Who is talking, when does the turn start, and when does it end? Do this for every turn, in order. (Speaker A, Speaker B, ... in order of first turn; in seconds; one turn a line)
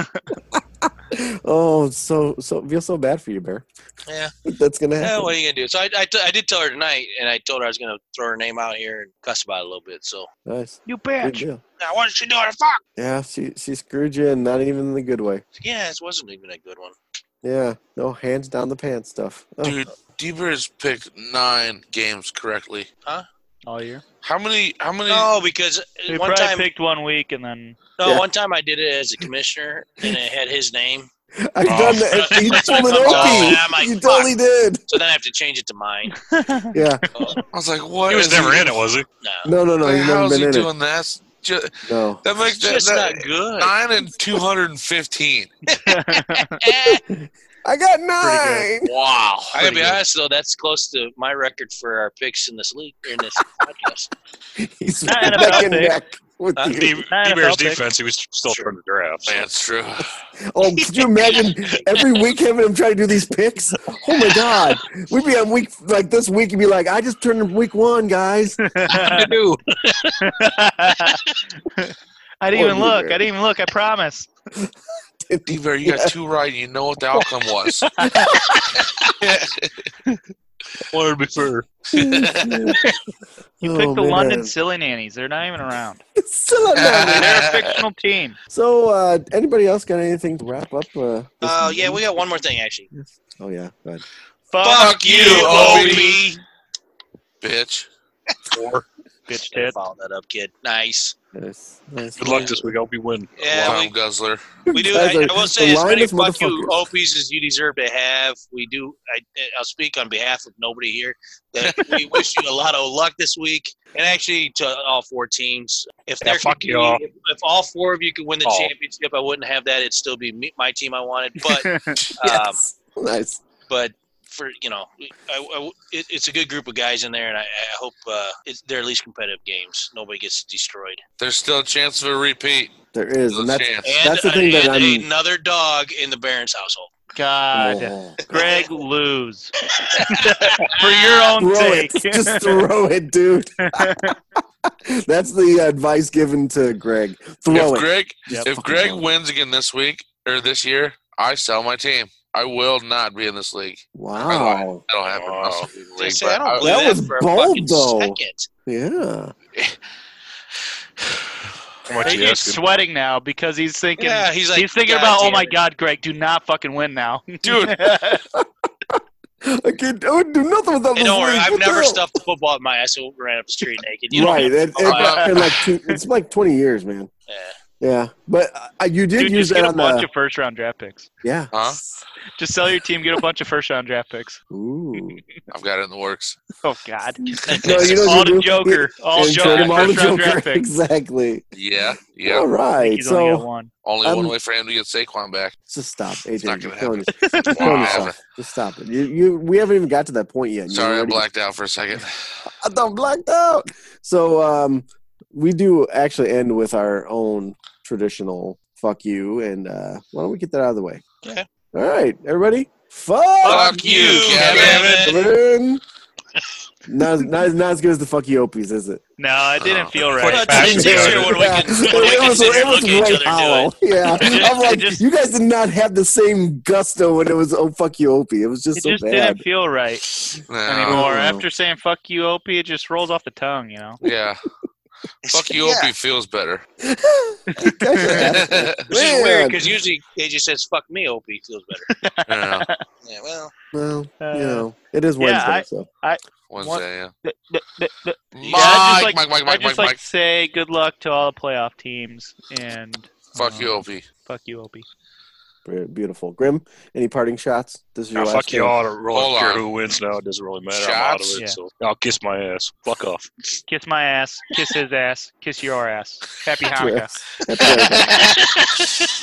Speaker A: 0.3-3.6
Speaker B: 4.1-4.3
Speaker A: 4.4-5.3
Speaker B: 5.0-10.3
Speaker A: 10.4-11.6
Speaker C: 10.8-11.4
Speaker B: 11.8-12.8
Speaker A: 13.0-15.4
Speaker B: 15.6-16.9
Speaker A: 17.4-19.8
Speaker D: 19.6-22.9
Speaker C: 23.6-24.0
Speaker D: 24.2-25.3
Speaker B: 25.1-26.7
Speaker C: 26.1-27.8
Speaker B: 28.0-31.1
Speaker A: 31.4-34.8
Speaker E: 31.6-33.5
Speaker B: 31.7-36.1
Speaker C: 36.1-36.7
Speaker A: 36.7-37.0
Speaker B: 37.1-37.4
Speaker D: 37.5-38.8
Speaker E: 38.1-39.1
Speaker B: 39.2-39.5
Speaker A: 39.4-40.7
Speaker D: 39.8-45.5
Speaker A: 41.8-42.2
Speaker B: 42.4-43.7
Speaker C: 45.7-46.6
Speaker B: 46.1-47.0
Speaker A: 47.1-48.9
Speaker C: 48.2-48.7
Speaker D: 48.8-50.0
Speaker B: 49.5-54.1
Speaker A: 54.6-57.0
Speaker C: 55.0-56.0
Speaker E: 56.7-59.4
Speaker C: 57.1-57.8
Speaker B: 58.5-58.7
Speaker D: 59.3-60.1
Speaker A: 60.0-68.6
Speaker B: 60.8-61.9
Speaker C: 68.6-69.3
Speaker B: 68.9-69.5
Speaker E: 69.0-70.1
Speaker C: 70.2-71.2
Speaker C: 71.8-74.3
Speaker A: 72.5-73.2
Speaker A: 74.5-76.1
Speaker D: 75.5-77.8
Speaker C: 78.0-78.3
Speaker A: 78.0-78.4
Speaker D: 79.1-79.7
Speaker E: 80.9-81.7
Speaker D: 81.9-82.8
Speaker A: 81.9-82.8
Speaker A: 83.6-84.5
Speaker C: 83.6-86.0
Speaker A: 86.2-87.5
Speaker D: 86.7-87.7
Speaker C: 87.1-88.4
Speaker A: 88.5-92.0
Speaker B: 91.4-92.9
Speaker A: 92.9-94.0
Speaker C: 94.5-96.2
Speaker B: 94.6-96.4
Speaker D: 94.7-96.2
Speaker D: 97.4-97.9
Speaker E: 98.5-98.8
Speaker C: 99.3-99.8
Speaker B: 99.5-101.1
Speaker A: 101.3-102.7
Speaker E: 102.2-103.8
Speaker B: 103.4-103.9
Speaker D: 103.6-104.4
Speaker A: 104.7-106.7
Speaker B: 104.7-122.6
Speaker E: 116.2-117.0
Speaker E: 118.4-118.7
Speaker C: 121.5-122.0
Speaker A: 122.2-123.4
Speaker B: 123.7-131.0
Speaker D: 131.2-132.7
Speaker A: 132.9-135.1
Speaker D: 133.3-133.9
Speaker B: 133.8-136.9
Speaker C: 137.1-142.6
Speaker A: 137.5-138.2
Speaker B: 138.3-138.7
Speaker B: 139.8-141.1
Speaker A: 141.4-147.9
Speaker C: 143.6-144.2
Speaker D: 147.5-156.7
Speaker A: 148.5-149.1
Speaker A: 153.9-154.8
Speaker E: 155.1-155.7
Speaker B: 156.0-158.5
Speaker A: 156.6-159.3
Speaker E: 161.8-162.6
Speaker C: 162.0-168.2
Speaker B: 164.0-165.6
Speaker D: 167.4-167.8
Speaker A: 169.4-172.1
Speaker B: 170.9-175.2
Speaker A: 174.1-177.1
Speaker D: 174.8-175.3
Speaker C: 175.1-176.0
Speaker B: 177.3-177.6
Speaker A: 177.8-180.1
Speaker C: 179.2-181.1
Speaker A: 181.2-182.0
Speaker D: 181.5-181.8
Speaker C: 182.4-184.4
Speaker A: 184.5-185.2
Speaker D: 185.5-186.4
Speaker C: 186.6-190.7
Speaker A: 187.2-191.4
Speaker D: 187.5-188.2
Speaker D: 189.4-189.9
Speaker D: 191.5-192.5
Speaker A: 192.2-193.4
Speaker C: 192.8-193.7
Speaker D: 193.8-195.6
Speaker A: 194.0-194.3
Speaker A: 195.7-201.2
Speaker D: 196.4-198.2
Speaker C: 197.1-197.8
Speaker D: 200.7-202.3
Speaker A: 202.4-211.0
Speaker A: 211.7-215.8
Speaker B: 213.4-215.3
Speaker D: 213.4-215.1
Speaker E: 214.3-215.1
Speaker A: 216.9-219.0
Speaker C: 219.2-221.1
Speaker D: 219.6-220.1
Speaker E: 219.9-221.5
Speaker B: 220.2-224.5
Speaker A: 220.5-229.4
Speaker C: 224.2-225.0
Speaker C: 228.7-230.0
Speaker D: 230.5-231.1
Speaker C: 230.6-234.0
Speaker A: 230.9-231.4
Speaker D: 234.0-234.4
Speaker B: 235.2-235.9
Speaker D: 235.3-236.7
Speaker A: 236.9-239.8
Speaker C: 237.5-238.2
Speaker D: 238.0-238.8
Speaker B: 238.9-241.9
Speaker C: 241.9-242.8
Speaker D: 242.3-242.7
Speaker B: 243.0-243.5
Speaker A: 243.7-245.9
Speaker C: 244.2-244.7
Speaker C: 245.2-254.8
Speaker D: 246.5-247.1
Speaker D: 248.3-250.0
Speaker D: 253.3-254.0
Speaker A: 255.6-258.8
Speaker E: 258.1-263.3
Speaker D: 259.1-259.6
Speaker D: 260.7-261.4
Speaker C: 263.7-268.2
Speaker A: 266.8-268.3